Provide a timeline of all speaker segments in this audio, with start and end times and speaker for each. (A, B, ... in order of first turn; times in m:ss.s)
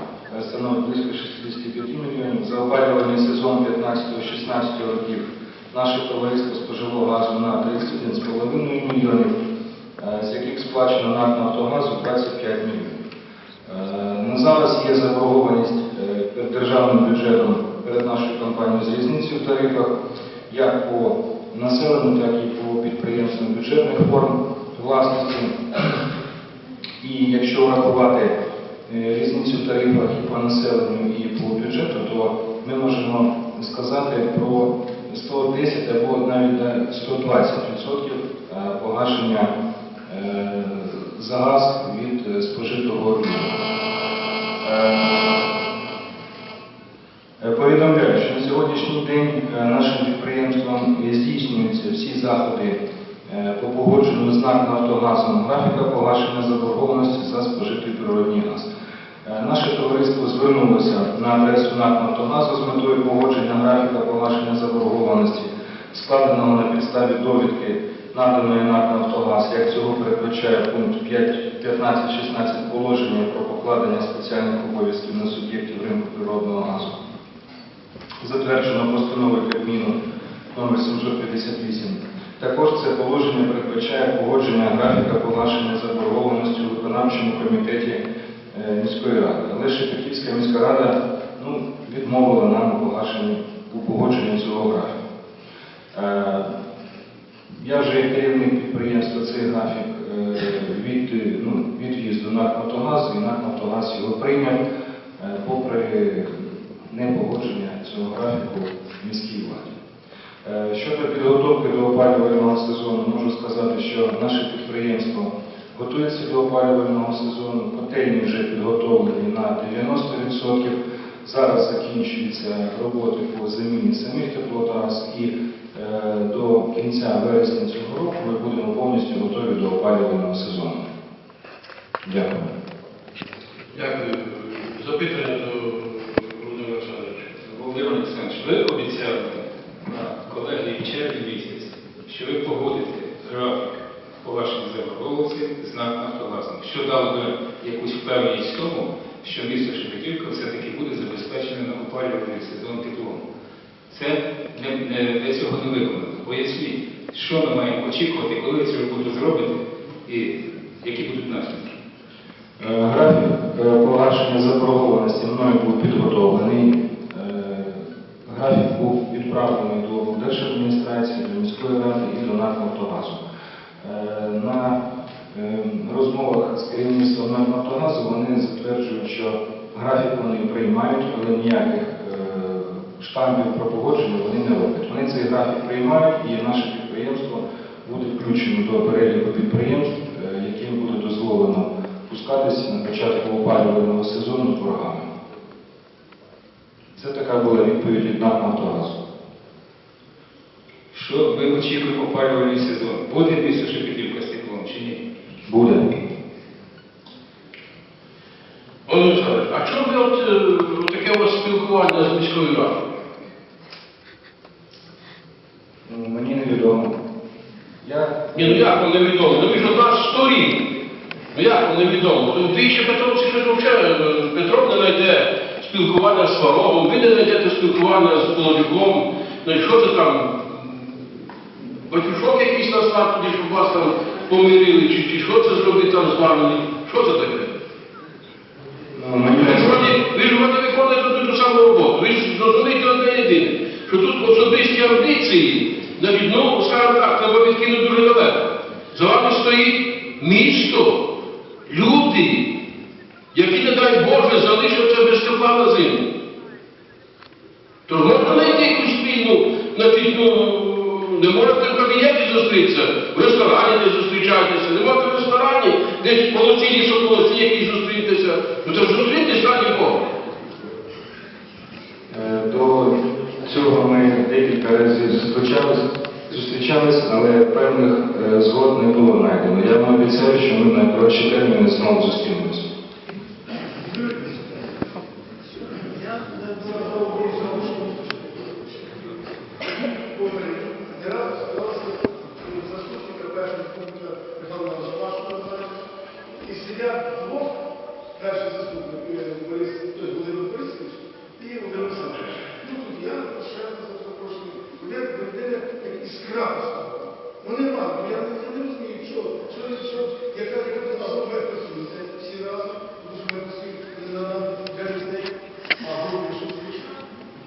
0:00.3-0:09.3 A
0:10.0-0:13.0 A
0:13.6-0:19.9 A
0:20.5-0:26.0 A
0:27.0-0:28.3 A
0:28.9-0:39.5 A
0:40.1-0:43.6 A
0:44.6-0:45.4 A
0:47.4-0:58.7 A
0:59.2-1:17.0 A
1:18.2-1:20.0 A
1:20.5-1:28.0 A
1:28.5-1:35.0 A
1:35.9-1:36.5 A
1:37.6-1:44.6 A
1:45.2-1:49.8 A
1:50.4-2:10.9 A
2:12.0-2:12.5 A
2:13.7-2:17.3 B
2:17.4-2:33.2 C
2:33.9-2:41.7 C
2:42.6-2:53.2 A
2:53.8-2:54.8 A
2:55.3-3:15.1 A
3:16.9-3:19.0 A
3:20.9-3:25.0 C
3:25.5-3:25.8 A
3:28.8-3:32.9 B
3:35.8-3:37.0 A
3:37.8-3:38.7 A
3:38.3-3:40.7 B
3:41.3-3:50.8 B
3:51.9-3:57.5 B
3:58.9-3:59.9 A
3:59.4-4:11.1 B
4:11.7-4:12.5 B
4:13.3-4:16.0 B
4:17.9-4:30.0 B
4:32.1-4:42.6 A
4:43.9-4:44.4 D
4:46.2-4:49.1 D
4:49.8-4:55.7 D
4:56.4-4:57.5 D
4:58.1-5:17.0 D